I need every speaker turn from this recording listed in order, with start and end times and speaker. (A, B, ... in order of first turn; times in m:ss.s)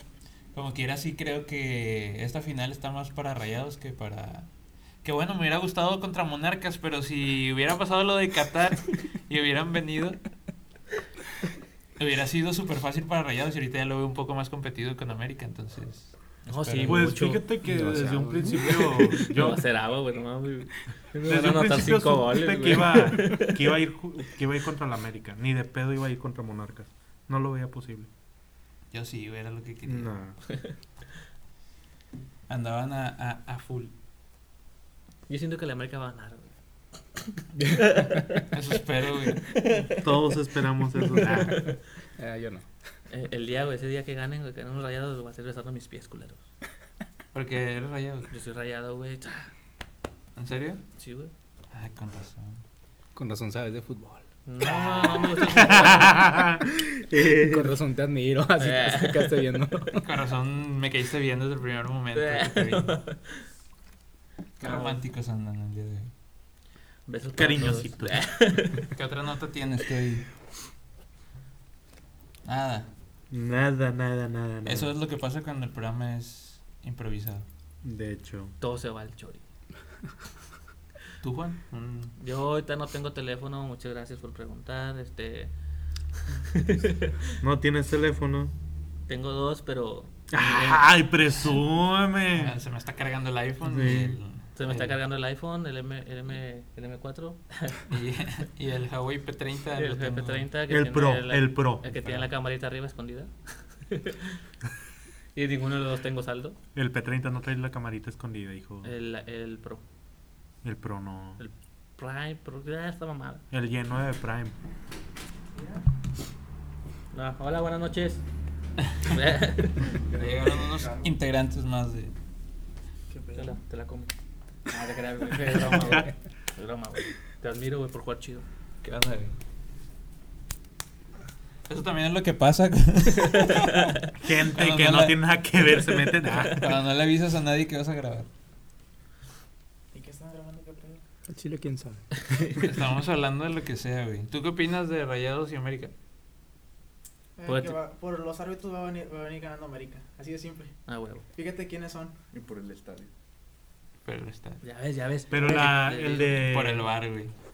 0:00.5-0:04.5 A
0:05.0-0:10.2 A
0:12.0-0:17.1 A
0:16.5-0:17.5 B
0:16.9-0:19.6 C
0:17.6-0:19.3 D
0:18.4-0:23.6 B
0:21.3-0:28.1 C
0:28.9-0:30.1 A
0:29.9-0:30.4 C
0:32.5-0:33.9 A
0:35.3-0:36.5 B
0:37.6-0:38.2 D
0:37.7-0:38.4 B
0:38.5-0:39.5 A
0:39.4-0:40.1 B
0:40.0-0:41.8 C
0:41.3-0:41.7 B
0:42.2-0:42.7 D
0:43.1-0:46.4 B
0:47.3-0:48.3 A
0:48.3-0:49.5 B
0:50.4-0:50.8 A
0:51.0-0:51.3 B
0:51.7-0:52.6 A
0:53.2-0:54.2 D
0:54.5-0:56.3 B
0:54.6-0:55.8 A
0:55.4-0:57.7 C
0:57.4-1:00.1 D
0:58.6-0:59.4 B
1:00.0-1:03.0 A
1:02.2-1:03.4 B
1:04.6-1:06.1 A
1:04.6-1:05.0 B
1:07.1-1:08.9 B
1:07.4-1:08.2 C
1:08.9-1:10.3 A
1:12.4-1:12.9 A
1:13.3-1:14.9 C
1:14.6-1:17.5 A
1:17.8-1:18.6 C
1:18.6-1:19.4 B
1:21.2-1:22.2 A
1:22.2-1:25.5 B
1:26.5-1:27.3 B
1:27.4-1:28.5 C
1:29.1-1:30.9 B
1:30.3-1:32.5 C
1:32.4-1:35.0 A
1:33.6-1:34.2 C
1:34.6-1:37.8 B
1:37.9-1:40.5 A
1:39.8-1:44.4 B
1:40.7-1:41.8 C
1:41.9-1:42.3 A
1:45.4-1:46.6 B
1:46.8-1:48.9 C
1:48.8-1:49.8 B
1:50.6-1:51.4 C
1:51.4-1:53.4 B
1:53.5-1:54.6 C
1:57.1-1:58.2 B
1:59.1-1:59.8 B
1:59.8-2:01.2 E
2:00.2-2:02.1 A
2:03.1-2:03.5 F
2:03.4-2:04.1 B
2:04.7-2:08.5 B
2:05.0-2:05.3 F
2:08.8-2:09.4 A
2:11.7-2:14.0 A
2:14.2-2:16.7 C
2:14.5-2:15.2 A
2:16.5-2:18.3 A
2:19.9-2:21.0 F
2:21.3-2:22.0 D
2:22.3-2:22.6 B
2:22.6-2:25.9 A
2:27.4-2:30.7 F
2:27.5-2:27.8 B
2:30.9-2:31.3 B
2:31.4-2:32.2 F
2:32.3-2:33.1 E
2:34.0-2:34.6 A
2:34.6-2:36.4 B
2:35.3-2:36.9 C
2:35.5-2:37.3 A